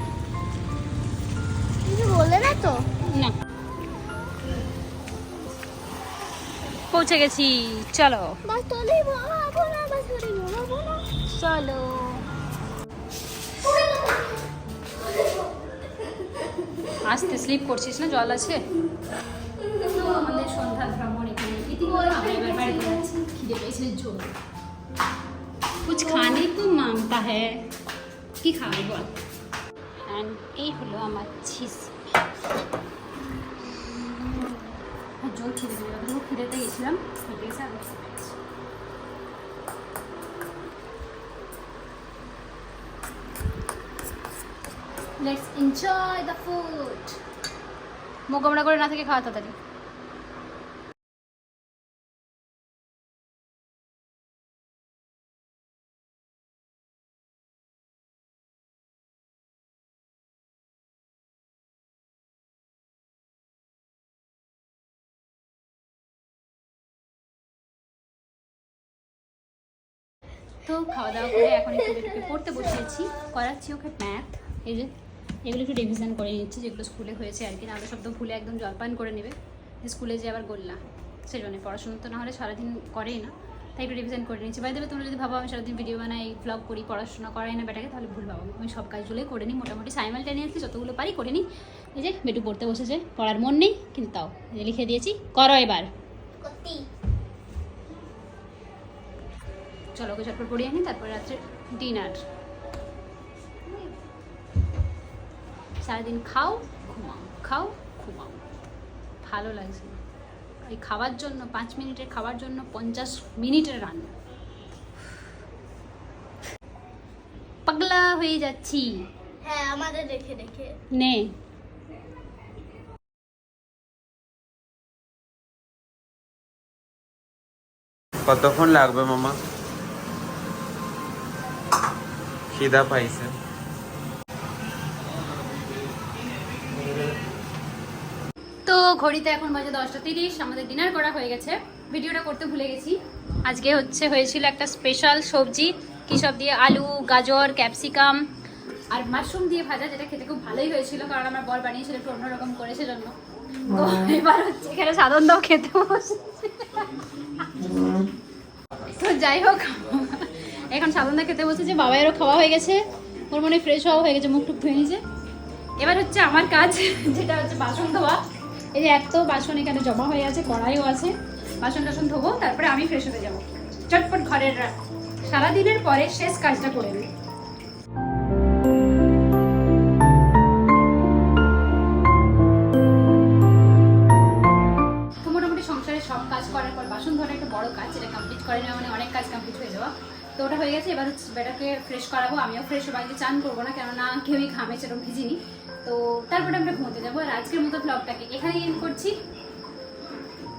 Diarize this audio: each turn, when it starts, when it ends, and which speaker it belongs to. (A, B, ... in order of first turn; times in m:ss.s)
0:01.8-0:02.8 A
0:03.1-0:03.3 B
0:06.9-0:08.4 B
0:08.4-0:11.0 A
0:11.3-0:12.2 B
0:13.6-0:14.3 A
0:17.0-0:18.6 B
0:19.7-0:24.3 B
0:22.0-0:23.1 A
0:25.8-0:27.7 B
0:28.4-0:29.1 B
0:30.1-0:32.0 B
0:35.2-0:38.4 B
0:45.2-0:47.2 B
0:48.3-0:49.6 B
1:10.6-1:14.9 B
1:15.4-1:35.9 B
1:36.4-1:36.8 A
1:39.9-1:42.2 B
1:45.8-1:48.4 B
1:49.2-1:50.0 B
1:50.6-1:54.1 B
1:57.6-1:59.1 B
1:59.4-2:00.7 A
2:00.9-2:01.3 B
2:08.3-2:09.4 C
2:12.5-2:13.3 C
2:18.6-2:28.2 B
2:28.9-2:33.2 B
2:33.7-2:37.4 B
2:38.8-2:45.0 B
2:45.8-2:48.2 B
2:48.7-2:57.1 B
3:05.2-3:19.2 B